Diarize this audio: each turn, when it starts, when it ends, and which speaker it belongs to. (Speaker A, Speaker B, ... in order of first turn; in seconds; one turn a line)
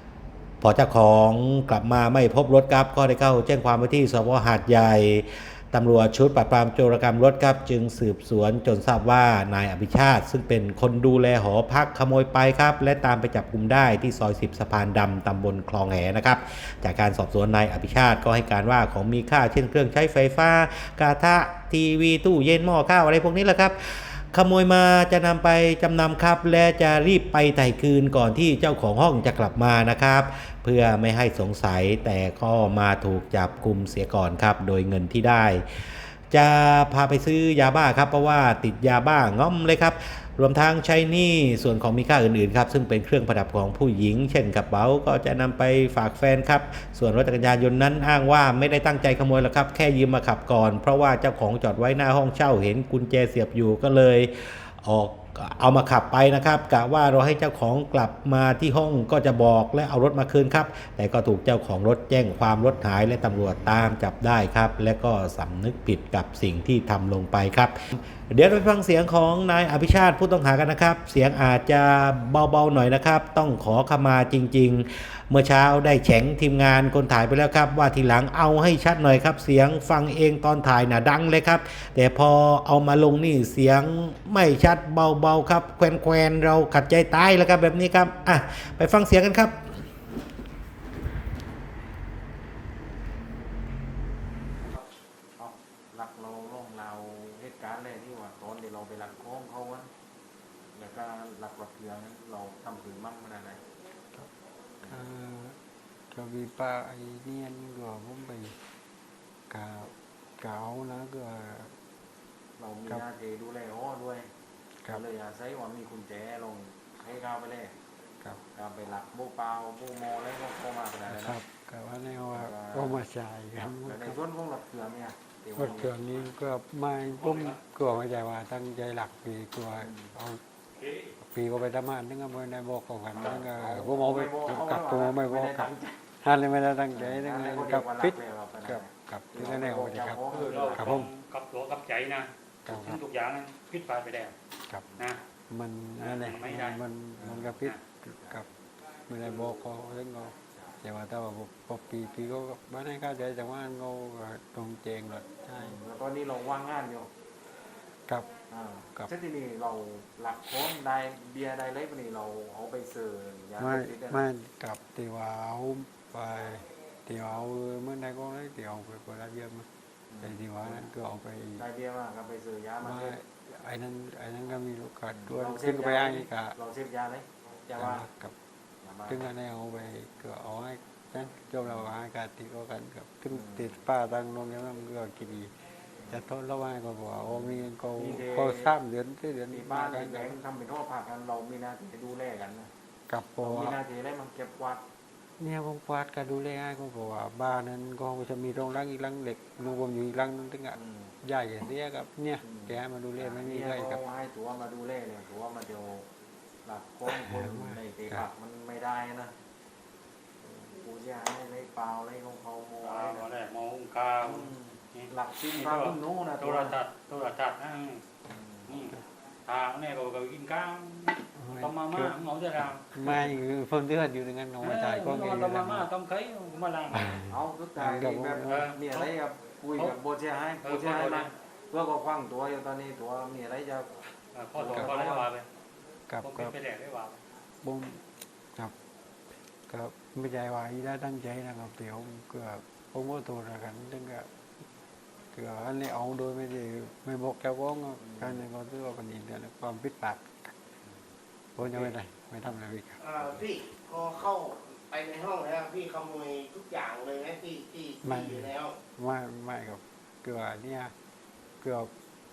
Speaker A: 0.6-35.6
Speaker A: 36.3-67.8
Speaker A: 68.3-89.5
Speaker B: 95.4-99.9
Speaker B: 100.7-103.6
Speaker C: 104.8-105.6
Speaker C: 106.1-108.6
Speaker C: 109.5-111.7
Speaker B: 112.6-114.3
Speaker B: 114.9-117.8
Speaker B: 118.5-121.4
Speaker C: 121.1-124.2
Speaker B: 122.3-123.0
Speaker B: 123.7-126.0
Speaker C: 125.6-130.4
Speaker D: 127.2-127.6
Speaker B: 129.8-130.1
Speaker D: 130.8-131.1
Speaker C: 131.2-141.1
Speaker B: 133.1-136.0
Speaker B: 136.9-141.0
Speaker D: 140.3-144.3
Speaker C: 142.7-143.0
Speaker D: 145.0-145.2
Speaker C: 145.5-148.5
Speaker D: 146.0-146.8
Speaker B: 147.2-147.5
Speaker C: 149.1-155.7
Speaker B: 149.2-149.6
Speaker B: 155.5-157.1
Speaker B: 158.5-164.2
Speaker C: 163.6-169.7
Speaker B: 170.1-170.9
Speaker C: 170.2-171.6
Speaker B: 171.6-173.2
Speaker C: 172.8-176.6
Speaker B: 175.1-178.1
Speaker C: 177.8-178.3
Speaker B: 178.8-179.2
Speaker C: 179.1-185.6
Speaker B: 183.3-183.7
Speaker C: 186.1-190.4
Speaker B: 187.2-188.7
Speaker B: 189.5-192.7
Speaker C: 193.1-193.8
Speaker B: 193.4-194.8
Speaker C: 195.4-204.0
Speaker B: 200.7-201.1
Speaker B: 202.4-206.1
Speaker B: 206.7-209.3
Speaker C: 207.1-208.3
Speaker B: 210.4-213.3
Speaker D: 212.8-218.0
Speaker B: 214.2-216.8
Speaker B: 218.3-218.9
Speaker D: 218.7-223.3
Speaker C: 221.3-222.1
Speaker C: 222.9-225.9
Speaker D: 224.6-227.2
Speaker C: 226.9-228.7
Speaker B: 227.2-234.0
Speaker D: 228.4-229.1
Speaker D: 230.6-231.3
Speaker D: 234.3-235.5
Speaker C: 234.6-235.2
Speaker B: 234.6-235.1
Speaker C: 236.1-236.5
Speaker D: 236.2-237.2
Speaker C: 237.6-238.0
Speaker C: 239.7-244.3
Speaker C: 245.3-250.5
Speaker B: 248.0-248.3
Speaker C: 251.6-253.2
Speaker B: 251.6-251.9
Speaker E: 253.0-258.7
Speaker C: 258.0-260.9
Speaker C: 261.6-261.9